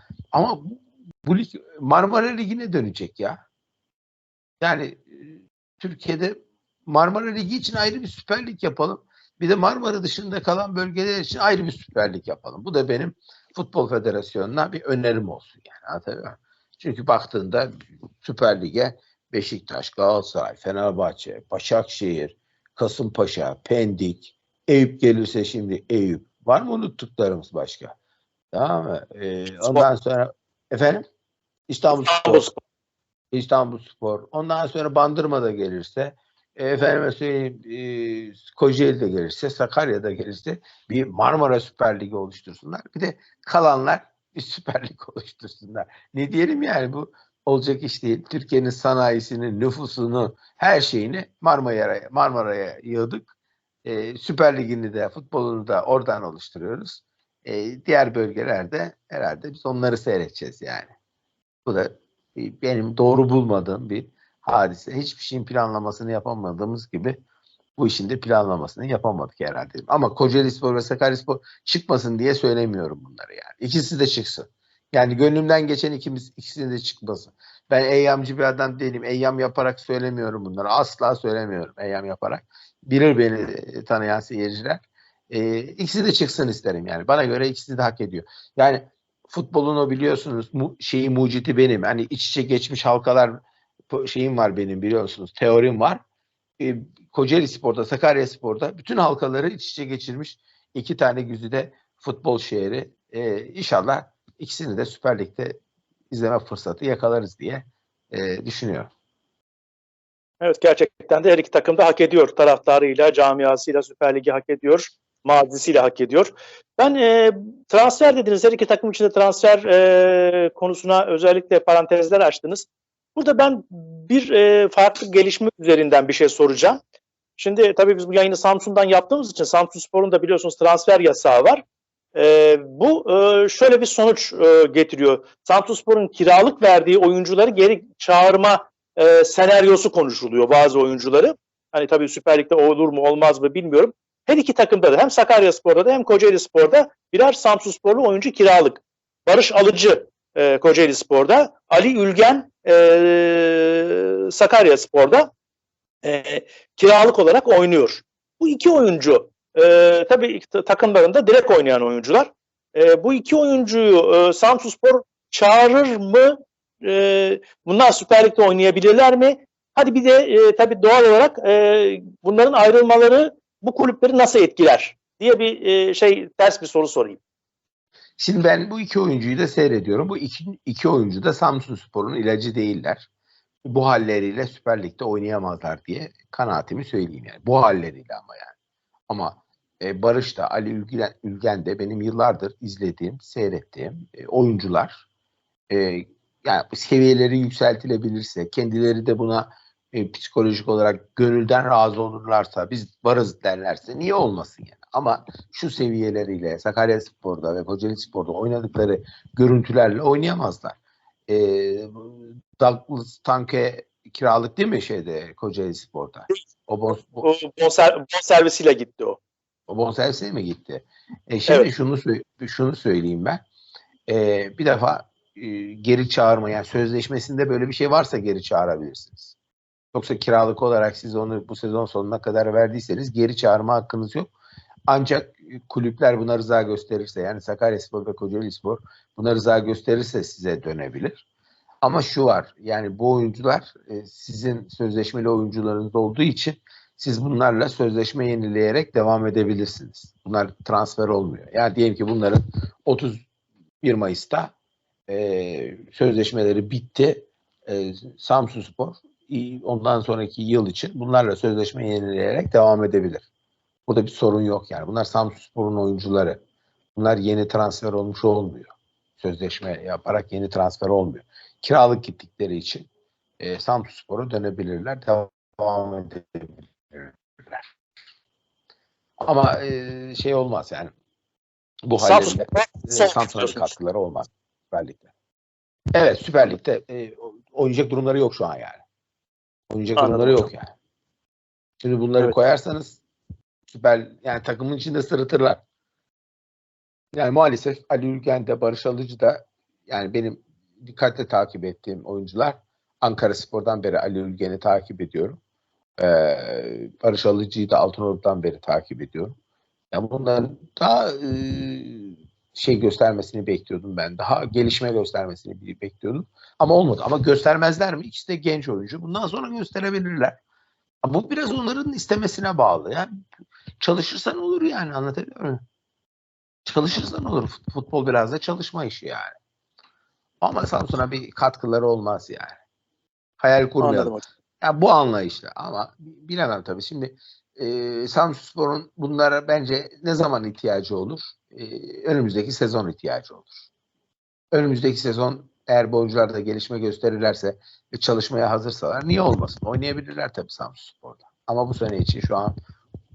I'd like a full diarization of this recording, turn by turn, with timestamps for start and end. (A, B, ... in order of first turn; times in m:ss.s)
0:00.3-0:03.4 A
0:04.6-0:27.9 A
0:28.5-0:31.0 A
0:29.6-0:29.8 B
0:31.7-0:32.4 A
0:31.9-0:32.6 B
0:33.3-0:53.3 A
0:53.8-1:00.9 A
1:01.6-1:07.2 A
1:07.8-1:33.4 A
1:33.9-1:36.0 A
1:36.6-1:45.6 A
1:46.1-1:48.9 A
1:50.4-2:06.8 B
2:07.4-2:11.6 B
2:12.1-2:35.3 B
2:36.0-2:57.2 B
2:58.2-3:03.1 A
3:03.6-3:08.5 A
3:09.1-3:15.0 A
3:15.7-3:37.3 A
3:36.9-3:39.2 B
3:39.7-3:43.4 A
3:44.1-3:49.3 A
3:49.9-3:54.3 A
3:54.9-4:01.2 A
4:01.8-4:13.2 A
4:13.8-4:14.5 A
4:15.1-4:23.3 A
4:23.9-4:26.4 A
4:26.9-4:32.9 A
4:33.4-4:37.7 A
4:39.2-4:40.9 A
4:41.8-4:45.1 A
4:42.0-4:43.7 B
4:45.9-4:48.8 A
4:49.7-4:50.7 A
4:50.0-4:50.5 B
4:51.8-4:53.0 A
4:53.7-4:55.6 A
4:57.1-5:05.4 A
5:06.0-5:09.3 A
5:09.9-5:20.4 A
5:21.0-5:23.1 A
5:23.8-5:25.6 A
5:26.6-5:29.4 A
5:30.4-5:32.6 A
5:33.4-5:43.5 A
5:33.8-5:34.2 B
5:44.5-5:52.5 A